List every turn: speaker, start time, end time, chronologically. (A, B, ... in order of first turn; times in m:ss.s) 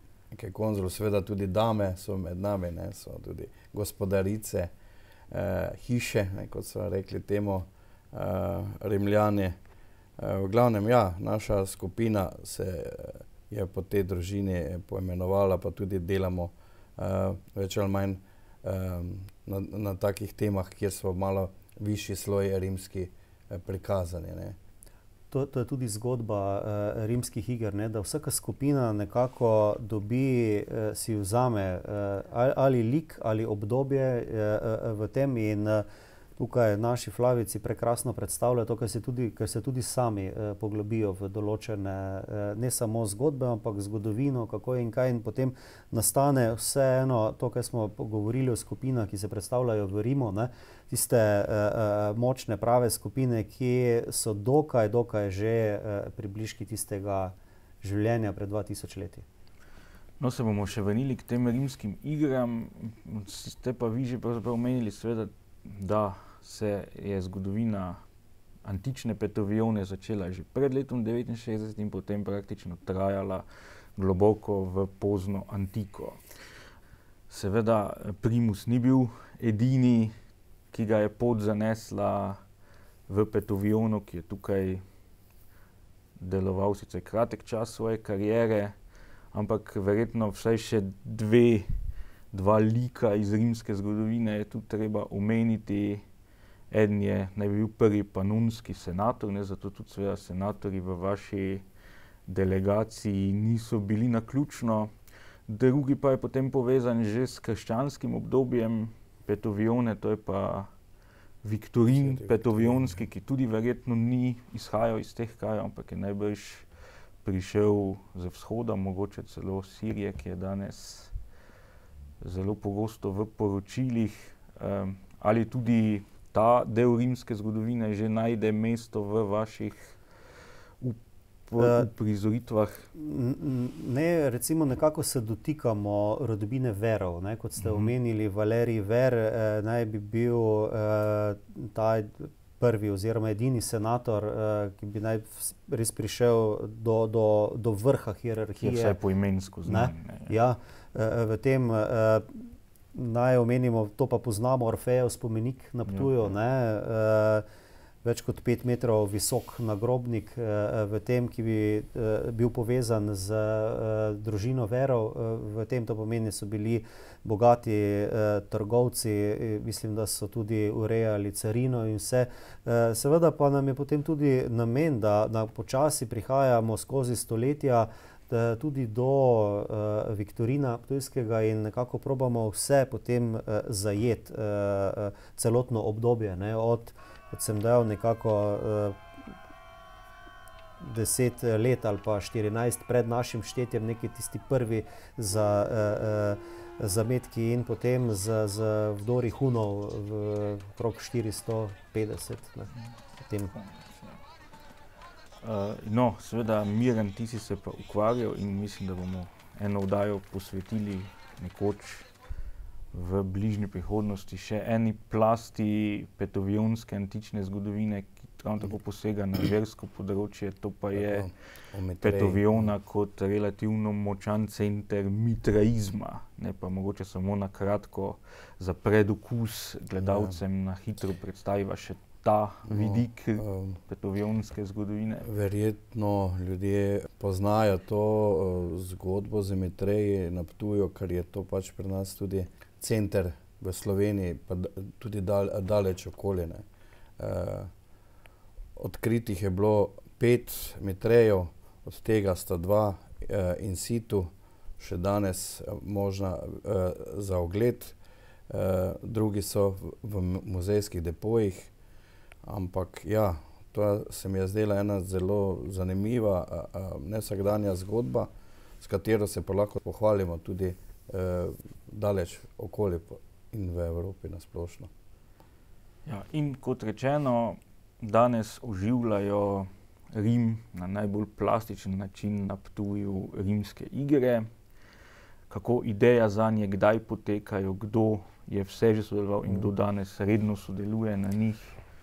0:00.3-0:04.7 A
0:05.3-0:09.6 A
0:10.2-0:24.6 A
0:25.3-0:35.9 B
0:36.4-0:59.2 B
1:00.2-1:08.0 C
1:08.6-1:13.4 C
1:14.0-1:16.2 C
1:17.3-1:20.1 C
1:20.7-1:22.4 C
1:23.1-1:24.8 C
1:26.2-1:28.8 C
1:29.3-1:31.8 C
1:32.3-1:36.0 C
1:36.7-1:41.6 C
1:42.3-1:44.9 C
1:45.5-1:50.7 C
1:51.4-1:56.7 C
1:51.9-1:53.0 A
1:57.2-2:01.1 C
2:02.2-2:10.0 C
2:10.8-2:12.9 C
2:11.6-2:11.9 B
2:13.0-2:29.0 B
2:17.6-2:17.9 C
2:28.6-2:30.4 C
2:29.7-2:37.4 B
2:35.9-2:36.3 C
2:38.0-3:09.0 B
3:10.8-3:22.7 B
3:23.2-3:23.5 B
3:23.5-3:24.2 C
3:25.4-3:32.1 C
3:32.9-3:41.3 C
3:40.9-3:42.7 A
3:42.0-3:55.3 C
3:50.0-3:50.4 A
3:52.7-3:53.8 A
3:55.2-4:06.6 A
4:07.2-4:07.7 A
4:08.8-4:18.0 A
4:18.5-4:21.7 A
4:22.4-4:28.3 A
4:28.8-4:34.9 A
4:36.1-4:44.5 C
4:45.5-4:51.8 C